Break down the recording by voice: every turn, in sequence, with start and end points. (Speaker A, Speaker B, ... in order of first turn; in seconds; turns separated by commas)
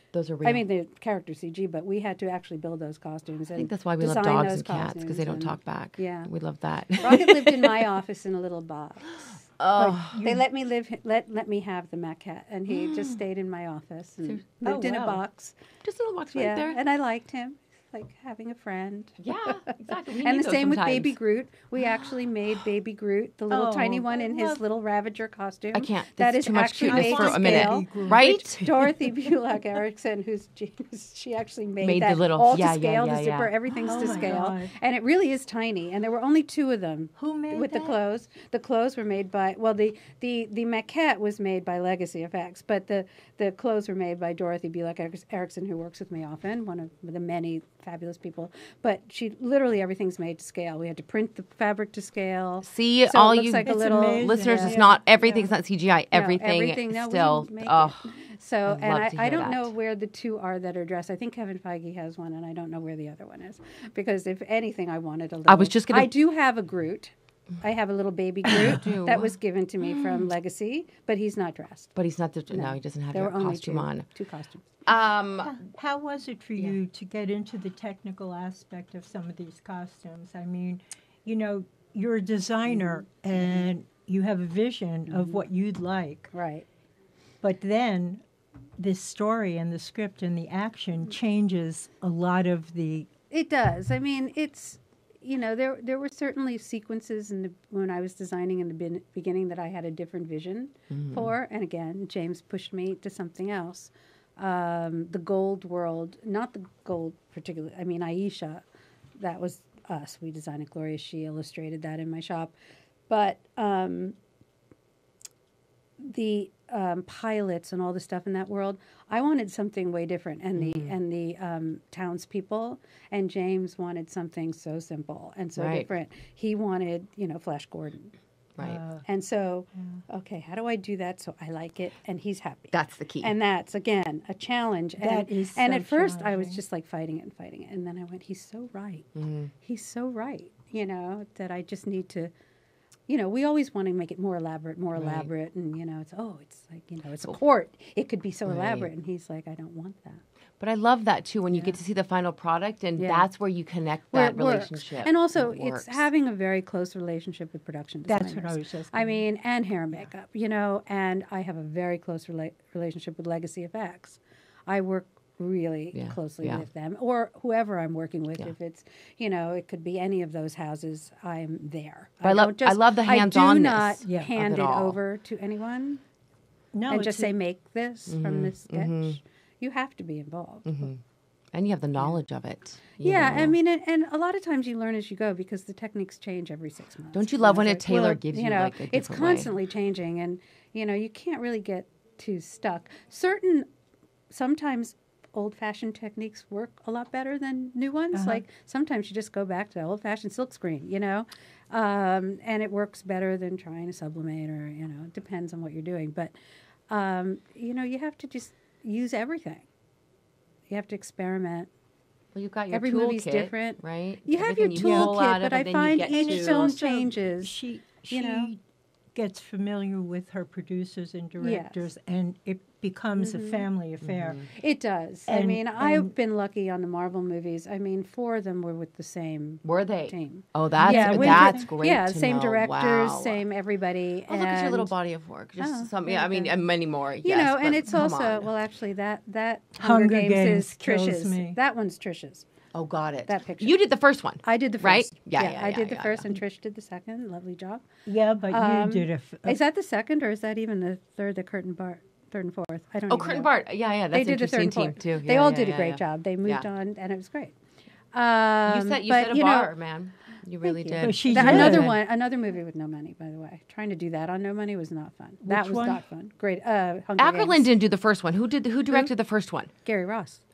Speaker A: 0.1-0.7, Speaker B: 0.4-6.3, Speaker A: 3.5-7.4, Speaker B: 7.0-9.3, Speaker A: 9.6-10.3, Speaker C: 9.8-10.4, Speaker B: 10.2-15.6, Speaker A: 12.7-13.2, Speaker C: 14.6-15.2, Speaker A: 15.8-16.8, Speaker B: 16.3-54.8, Speaker A: 19.2-21.1, Speaker C: 23.5-24.6, Speaker A: 25.7-28.6, Speaker C: 26.8-29.3, Speaker A: 31.8-33.5, Speaker C: 33.7-34.7, Speaker C: 37.2-38.0, Speaker A: 52.6-58.1, Speaker C: 53.6-55.5, Speaker B: 56.1-72.0, Speaker A: 58.7-59.7, Speaker A: 65.5-66.1, Speaker A: 68.5-69.3, Speaker A: 72.0-74.1, Speaker B: 72.5-74.8, Speaker A: 74.9-75.6, Speaker C: 75.4-86.3, Speaker B: 82.7-83.7, Speaker B: 85.1-85.5, Speaker B: 86.3-86.7, Speaker C: 87.4-88.2, Speaker C: 88.8-93.1, Speaker B: 93.3-108.6, Speaker A: 100.9-101.3, Speaker B: 109.2-112.5, Speaker B: 113.1-114.2, Speaker B: 116.0-128.1, Speaker A: 120.6-121.0, Speaker A: 125.6-125.9, Speaker C: 128.6-129.1, Speaker B: 129.1-139.1, Speaker C: 129.8-130.0, Speaker A: 132.7-133.3, Speaker C: 135.0-136.6, Speaker A: 139.2-139.5, Speaker B: 139.6-142.3, Speaker B: 143.1-150.2, Speaker A: 144.9-145.3, Speaker A: 148.5-148.9, Speaker A: 150.6-156.1, Speaker B: 153.0-153.3, Speaker B: 154.1-176.0, Speaker C: 158.1-159.2, Speaker A: 165.9-166.7, Speaker A: 172.2-175.0, Speaker C: 174.1-174.3, Speaker C: 176.8-177.4, Speaker B: 176.9-180.8, Speaker A: 178.1-179.2, Speaker A: 180.7-181.0, Speaker A: 181.5-183.6, Speaker B: 183.0-193.7, Speaker A: 187.1-189.5, Speaker B: 194.3-206.3, Speaker C: 198.1-198.4, Speaker B: 206.9-209.7, Speaker B: 210.7-211.7, Speaker A: 212.3-216.7, Speaker B: 212.7-217.6, Speaker C: 214.8-215.2, Speaker C: 216.1-218.6, Speaker B: 218.1-218.5, Speaker C: 219.2-224.4, Speaker B: 221.4-221.9, Speaker B: 223.2-223.7, Speaker A: 224.0-224.5, Speaker B: 224.5-234.9, Speaker C: 225.3-226.1, Speaker A: 229.6-233.4, Speaker C: 230.8-231.7, Speaker A: 234.3-238.5, Speaker B: 235.6-236.6, Speaker B: 237.2-242.5, Speaker C: 239.8-241.6, Speaker A: 242.7-246.3, Speaker B: 243.3-243.8, Speaker B: 244.4-247.9, Speaker C: 248.1-249.6, Speaker B: 248.5-253.5, Speaker A: 253.1-256.7, Speaker B: 254.1-257.5, Speaker B: 258.1-259.7, Speaker A: 258.7-262.0, Speaker B: 260.6-267.7, Speaker C: 261.0-261.9, Speaker C: 265.4-266.0, Speaker A: 267.2-269.7, Speaker B: 269.8-270.4